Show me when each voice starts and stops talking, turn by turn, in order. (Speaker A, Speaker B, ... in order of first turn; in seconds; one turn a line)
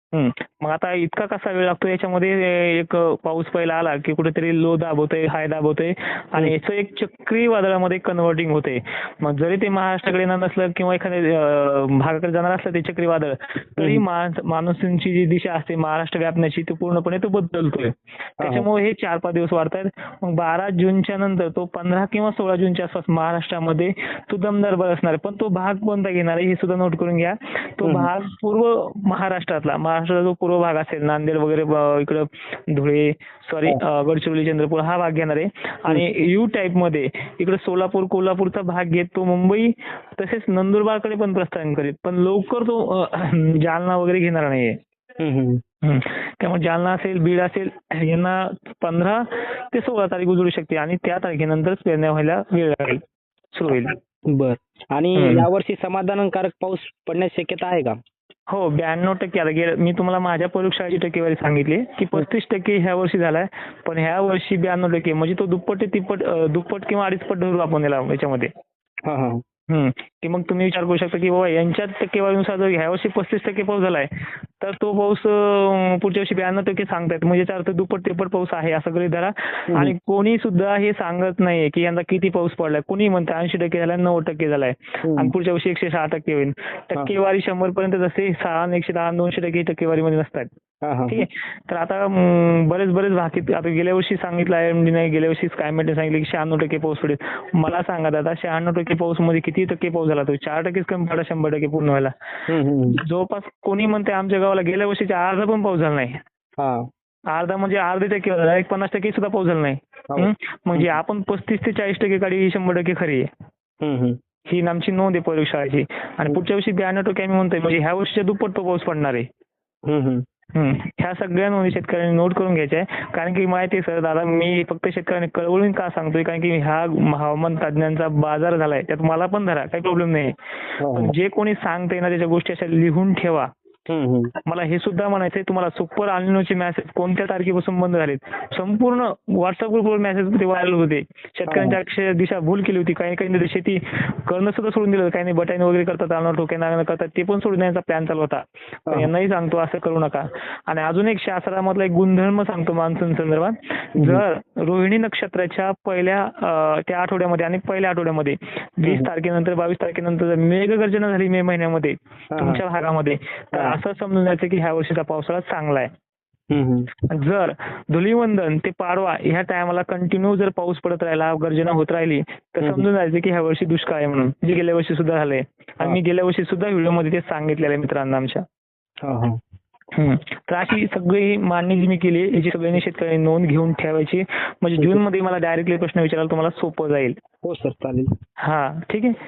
Speaker A: 0.1-44.8
Speaker B: 13.8-14.0
Speaker B: 18.4-18.7
Speaker B: 27.8-28.1
Speaker B: 45.2-45.6
Speaker A: 45.8-53.0
Speaker A: 53.5-54.0
Speaker B: 53.9-58.0
Speaker A: 55.1-55.5
Speaker A: 58.5-68.5
Speaker B: 69.0-69.4
Speaker A: 69.7-74.1
Speaker A: 74.6-90.5
Speaker B: 85.0-85.3
Speaker B: 90.8-91.2
Speaker A: 91.1-102.1
Speaker B: 102.5-103.0
Speaker A: 103.0-106.2
Speaker B: 106.6-106.9
Speaker A: 107.3-113.3
Speaker B: 110.1-111.0
Speaker B: 113.8-114.2
Speaker A: 114.5-119.2
Speaker B: 119.9-120.2
Speaker A: 120.5-130.3
Speaker B: 130.8-131.2
Speaker A: 130.9-133.5
Speaker B: 133.9-134.3
Speaker A: 134.4-165.9
Speaker B: 141.5-141.8
Speaker B: 162.3-162.6
Speaker B: 166.5-166.9
Speaker A: 167.1-178.4
Speaker B: 179.0-179.4
Speaker A: 179.9-187.2
Speaker B: 187.4-188.1
Speaker A: 188.4-189.2